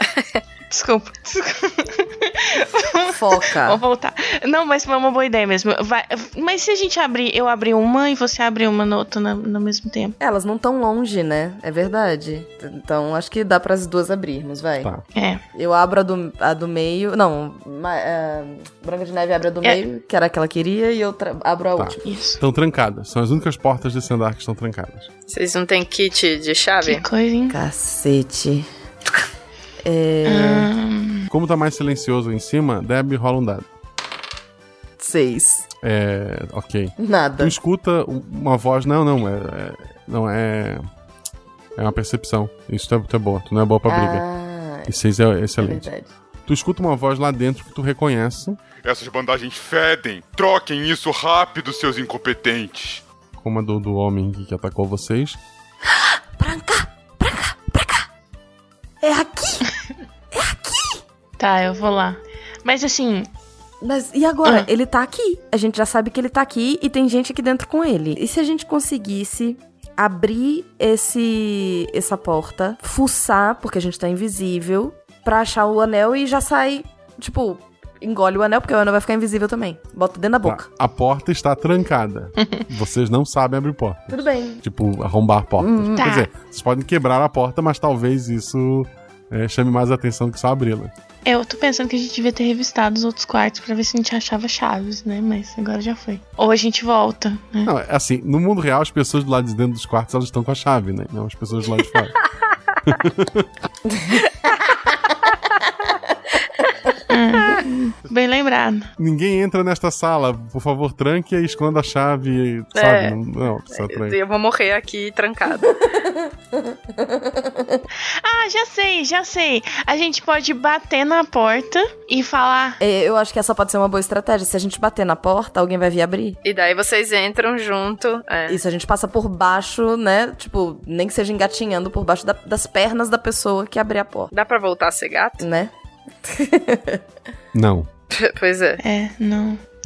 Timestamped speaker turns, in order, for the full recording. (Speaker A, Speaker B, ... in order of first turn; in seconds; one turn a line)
Speaker A: 0.7-10.2
Speaker B: 3.1-3.8
Speaker B: 10.2-14.9
Speaker A: 15.1-15.4
Speaker B: 15.5-22.0
Speaker C: 21.8-25.1
Speaker A: 22.0-22.4
Speaker D: 25.3-27.0
Speaker A: 26.8-27.6
Speaker B: 27.5-28.7
Speaker B: 29.8-30.7
Speaker A: 30.2-31.3
Speaker C: 31.3-33.7
Speaker B: 35.0-35.7
Speaker C: 35.8-40.9
Speaker B: 37.0-37.5
Speaker C: 41.8-44.2
Speaker B: 43.9-44.9
Speaker C: 44.9-45.9
Speaker B: 45.6-46.1
Speaker C: 46.5-48.6
Speaker E: 48.8-53.0
Speaker C: 53.4-55.4
Speaker B: 56.4-58.0
Speaker B: 59.0-59.7
Speaker B: 60.3-61.0
Speaker A: 61.4-63.3
Speaker B: 63.8-80.7
Speaker C: 80.4-90.9
Speaker B: 84.1-84.6
Speaker B: 85.6-86.0
Speaker A: 86.0-86.3
Speaker A: 91.2-97.7
Speaker C: 97.7-102.2
Speaker C: 102.9-103.5
Speaker B: 103.9-104.7
Speaker A: 107.1-108.9
Speaker C: 109.0-114.2
Speaker D: 112.7-113.2
Speaker D: 113.7-115.7
Speaker B: 115.6-117.8
Speaker A: 118.2-122.8
Speaker B: 122.8-126.4
Speaker D: 126.4-128.6
Speaker B: 128.5-134.3
Speaker D: 134.3-135.4
Speaker B: 135.4-135.7
Speaker B: 136.2-137.0
Speaker C: 137.5-137.9
Speaker D: 138.1-138.8
Speaker A: 138.8-139.6